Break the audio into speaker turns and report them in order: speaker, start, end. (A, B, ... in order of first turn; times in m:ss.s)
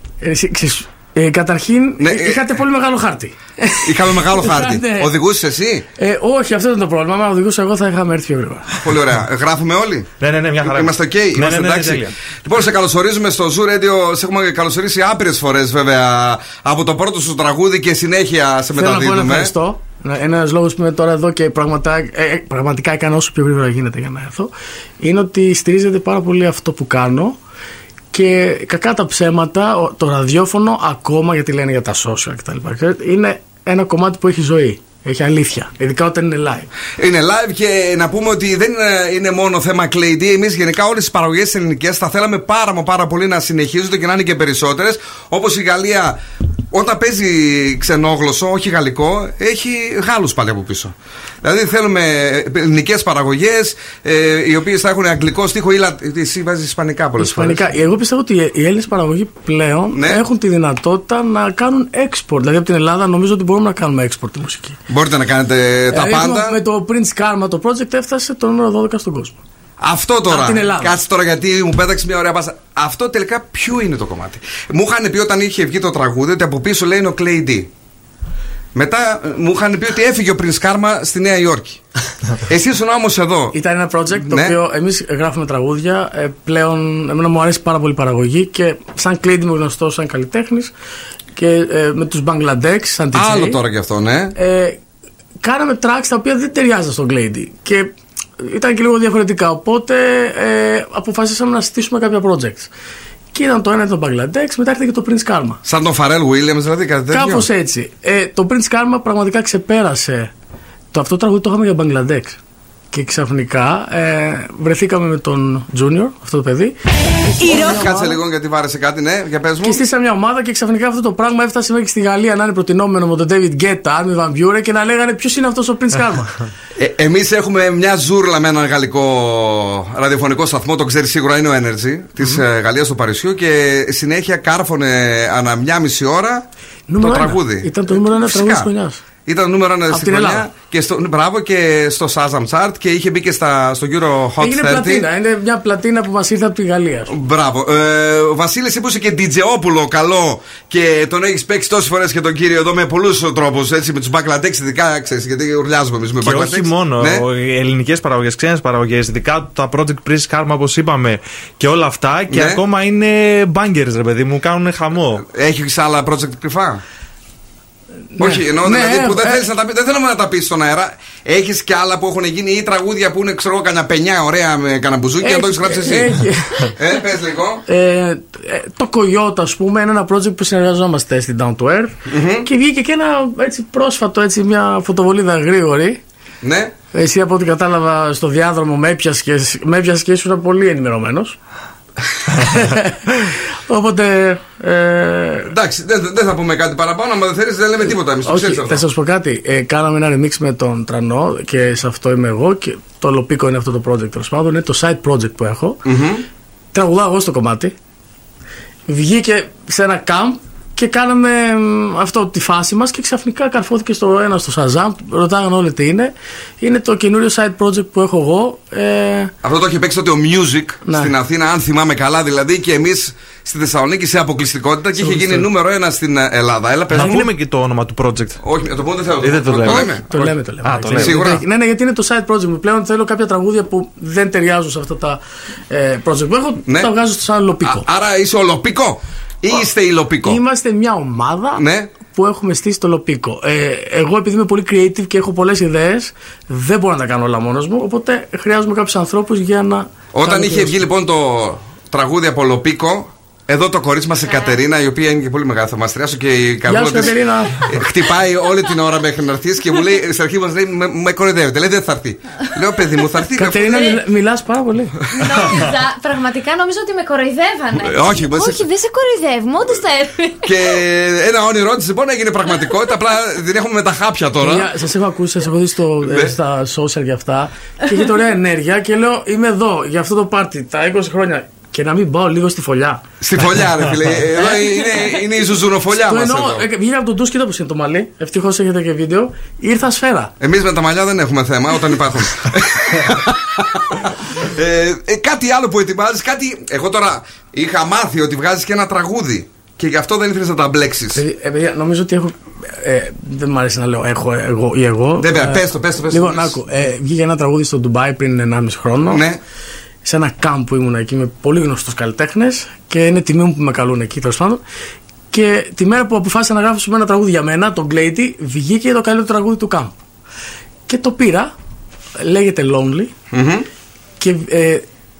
0:00.2-0:05.1 A
0:02.0-0:02.6 B
0:03.8-0:05.9 B
0:06.0-0:08.8 A
0:08.8-0:10.1 B
0:10.2-0:12.1 C
0:10.6-0:19.5 B
0:18.7-0:27.4 A
0:28.1-0:36.7 A
0:37.0-0:46.2 B
0:46.7-0:57.7 B
0:57.2-1:04.8 A
0:59.9-1:00.2 B
1:04.9-1:06.6 B
1:05.9-1:09.4 A
1:09.8-1:17.7 B
1:10.3-1:11.0 A
1:18.8-1:23.6 B
1:23.5-1:30.7 A
1:24.2-1:24.6 B
1:31.4-1:33.6 A
1:33.1-1:34.4 B
1:34.4-1:34.8 A
1:35.4-1:42.7 A
1:43.3-1:45.6 A
1:45.6-1:47.5 B
1:47.1-1:50.3 A
1:50.9-1:52.4 A
1:52.9-1:58.2 A
1:57.4-1:59.8 B
1:59.6-2:06.4 A
2:06.8-2:16.5 B
2:16.9-2:19.0 A
2:17.0-2:18.7 B
2:19.3-2:25.1 B
2:19.9-2:20.5 A
2:24.4-2:27.1 A
2:27.1-2:37.3 B
2:36.2-2:45.2 C
2:42.3-2:42.6 B
2:45.2-2:46.8 B
2:48.1-2:49.4 A
2:48.2-2:57.7 B
2:55.2-2:56.8 A
2:57.7-3:06.0 A
3:02.1-3:02.5 B
3:06.4-3:06.7 B
3:06.9-3:11.4 A
3:12.3-3:15.5 A
3:15.5-3:18.8 B
3:18.2-3:25.8 A
3:25.8-3:26.2 B
3:26.7-3:27.8 A
3:28.9-3:39.3 A
3:39.4-3:47.3 B
3:40.9-3:41.1 A
3:45.0-3:45.5 A
3:46.9-3:48.4 C
3:47.0-3:47.2 A
3:48.4-3:50.0 B
3:49.2-3:51.4 C
3:49.7-3:57.8 A
3:50.9-3:51.4 B
3:56.7-3:56.9 B
3:57.6-4:00.4 B
4:00.2-4:10.8 A
4:01.6-4:01.9 B
4:10.1-4:24.0 B
4:16.7-4:17.7 A
4:23.4-4:25.0 A
4:23.7-4:24.0 D
4:25.1-4:30.6 D
4:25.2-4:25.5 B
4:27.7-4:28.7 B
4:30.4-4:34.7 B
4:34.4-4:43.0 A
4:36.0-4:36.4 B
4:43.2-4:46.7 B
4:46.0-4:50.3 A
4:50.4-5:01.2 B
5:01.1-5:09.2 A
5:05.2-5:06.6 B
5:09.0-5:09.4 B
5:10.0-5:14.6 A
5:15.3-5:20.0 A
5:20.9-5:21.5 A
5:22.2-5:23.1 A
5:23.3-5:23.7 B
5:24.2-5:24.9 A